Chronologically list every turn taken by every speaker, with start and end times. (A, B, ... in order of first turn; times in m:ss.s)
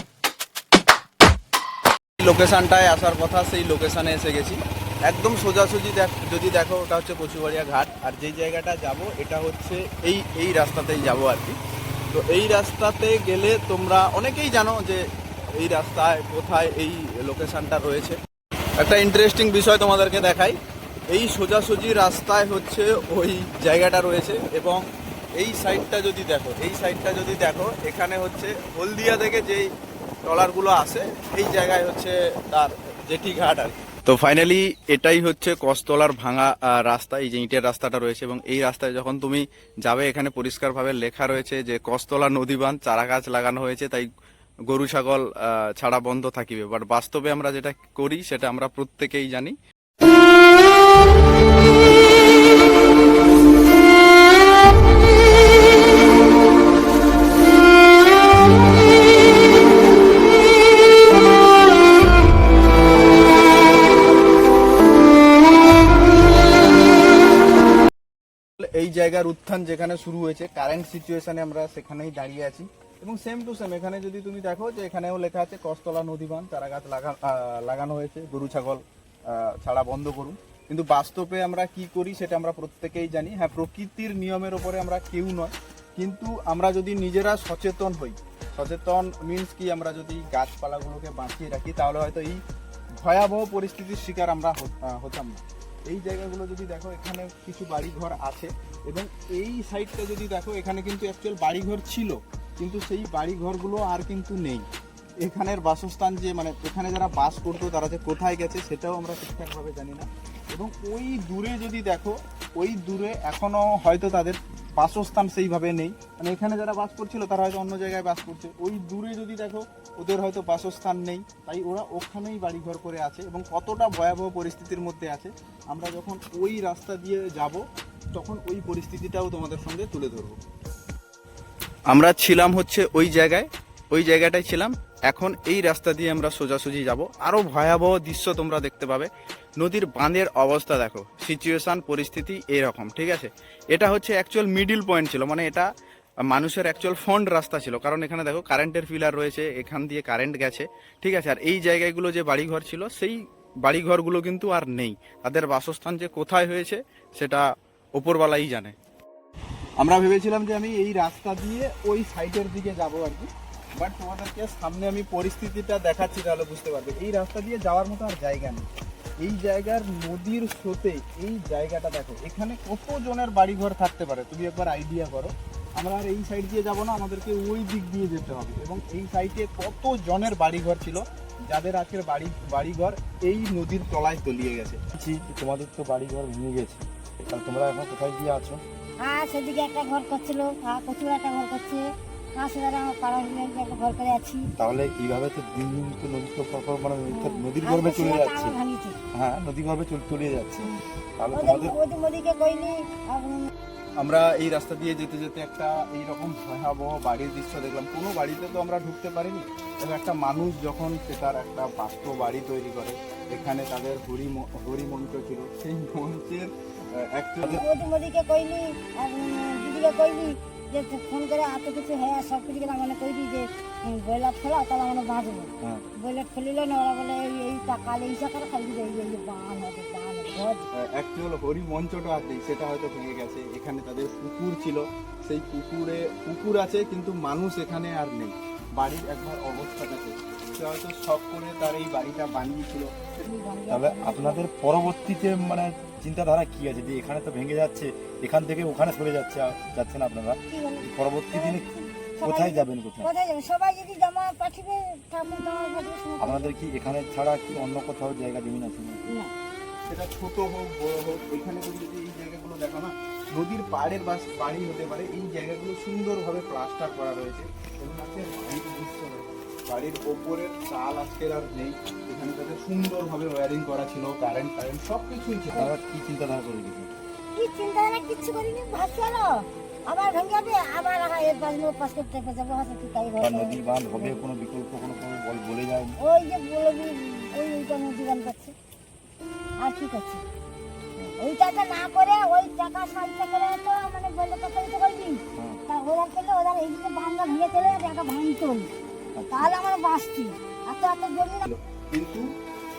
0:02.2-0:11.6 A
0:12.1-0:18.2 A
0:18.8-0:20.6 A
0:21.1-0:29.7 A
0:30.2-0:44.1 A
0:44.7-0:49.6 A
1:08.6-1:32.4 A
1:33.0-1:44.7 A
1:45.2-2:07.6 A
2:08.1-2:10.4 A
2:11.9-2:25.7 A
2:26.2-2:38.7 A
2:39.8-2:48.7 A
2:49.2-3:04.8 A
3:04.9-3:08.6 B
3:09.0-3:14.5 C
3:14.6-3:18.6 B
3:17.1-3:19.0 C
3:19.1-3:21.8 B
3:21.3-3:23.5 C
3:24.0-3:37.6 A
3:37.6-3:50.7 C
3:45.6-3:45.9 B
3:50.7-4:03.2 A
4:03.2-4:04.5 C
4:03.7-4:11.6 B
4:10.5-4:16.5 C
4:12.2-4:13.1 B
4:16.2-4:19.2 B
4:19.1-4:19.3 C
4:19.9-4:35.7 A
4:35.5-4:36.9 B
4:37.4-4:44.2 C
4:43.2-4:46.0 B
4:46.0-4:48.5 C
4:49.6-4:50.2 C
4:51.2-4:58.7 C
4:55.4-4:55.6 B
4:59.2-4:59.5 B
4:59.3-5:01.5 C
5:01.5-5:02.3 A